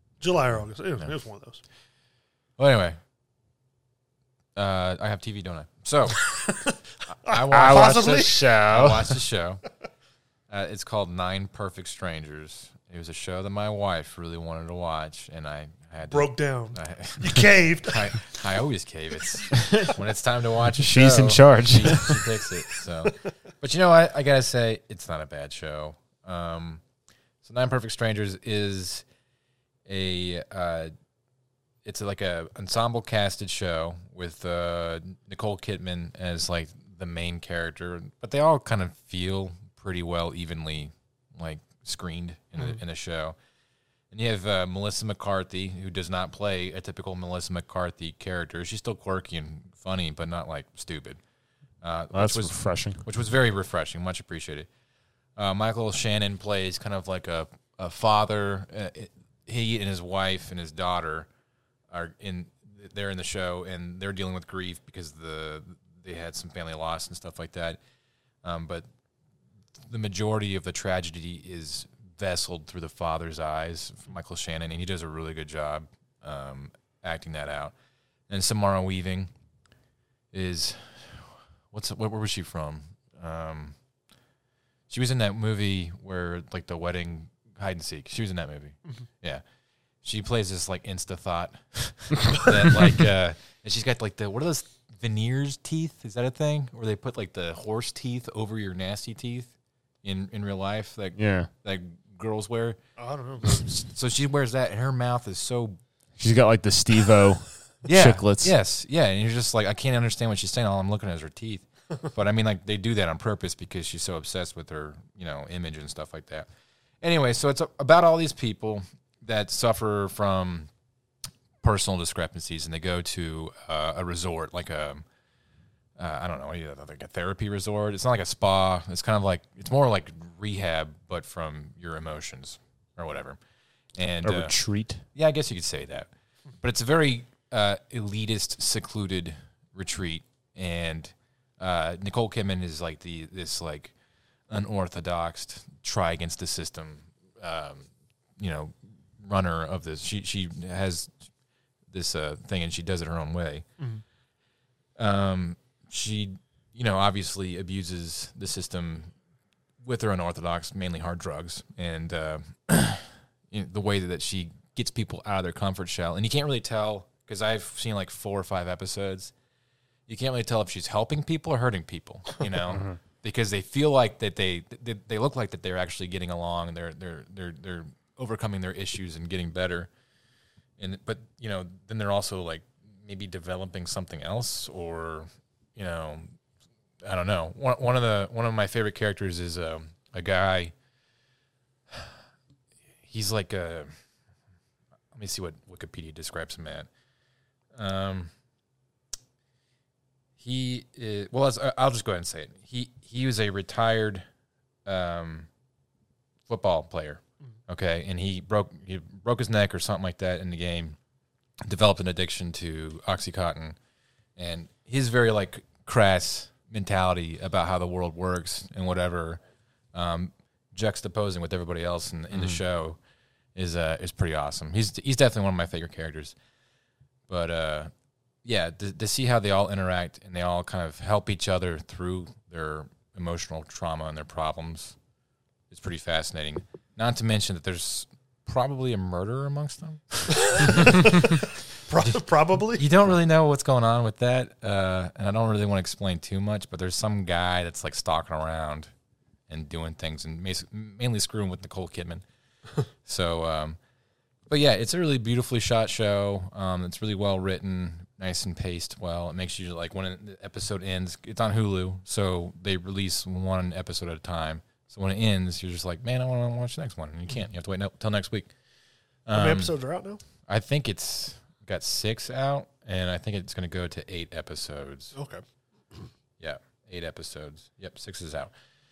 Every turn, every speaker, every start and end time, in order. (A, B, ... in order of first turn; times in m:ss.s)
0:00.2-0:01.6 A
0:02.6-0:03.0 B
0:04.5-0:06.4 B
0:06.2-0:08.5 A
0:07.1-0:09.6 B
0:07.5-0:09.2 C
0:10.5-0:26.8 B
0:16.1-0:18.1 A
0:19.5-0:19.9 C
0:20.8-0:22.2 C
0:27.4-0:29.0 B
0:29.8-0:30.9 B
0:31.8-0:43.4 B
0:44.1-0:51.2 B
0:51.8-0:54.7 B
0:52.1-0:53.0 C
0:55.4-1:01.3 B
1:01.9-1:07.8 B
1:08.4-1:08.8 B
1:09.9-1:17.7 B
1:18.3-1:19.3 B
1:20.3-1:23.7 B
1:24.9-1:29.4 B
1:30.0-1:39.5 B
1:40.0-1:42.8 B
1:41.2-1:41.5 C
1:43.0-1:43.5 A
1:43.4-1:45.8 B
1:46.2-1:48.5 C
1:47.8-1:56.5 B
1:57.0-2:00.7 B
2:01.6-2:05.0 B
2:06.0-2:13.4 B
2:13.9-2:14.5 B
2:14.2-2:15.0 C
2:15.1-2:16.1 B
2:16.6-2:23.9 B
2:24.5-2:31.1 B
2:31.9-2:33.6 B
2:35.0-2:39.1 B
2:39.8-2:49.3 B
2:50.1-2:59.9 B
2:52.6-2:53.0 C
3:00.8-3:06.3 B
3:07.0-3:10.7 B
3:11.9-3:12.2 B
3:13.0-3:13.9 B
3:15.1-3:16.9 B
3:17.7-3:18.3 B
3:20.4-3:24.2 B
3:24.8-3:25.5 B
3:26.5-3:31.0 B
3:31.6-3:33.8 B
3:34.4-3:39.4 B
3:39.9-3:43.0 B
3:43.5-3:46.3 B
3:47.3-3:47.9 B
3:48.4-3:55.0 B
3:55.7-4:01.3 B
4:00.3-4:02.9 A
4:02.8-4:08.9 B
4:09.5-4:12.2 B
4:13.0-4:13.8 B
4:14.5-4:28.5 B
4:29.2-4:29.7 B
4:29.3-4:30.2 A
4:30.5-4:35.1 B
4:35.1-4:35.4 A
4:36.4-4:38.5 B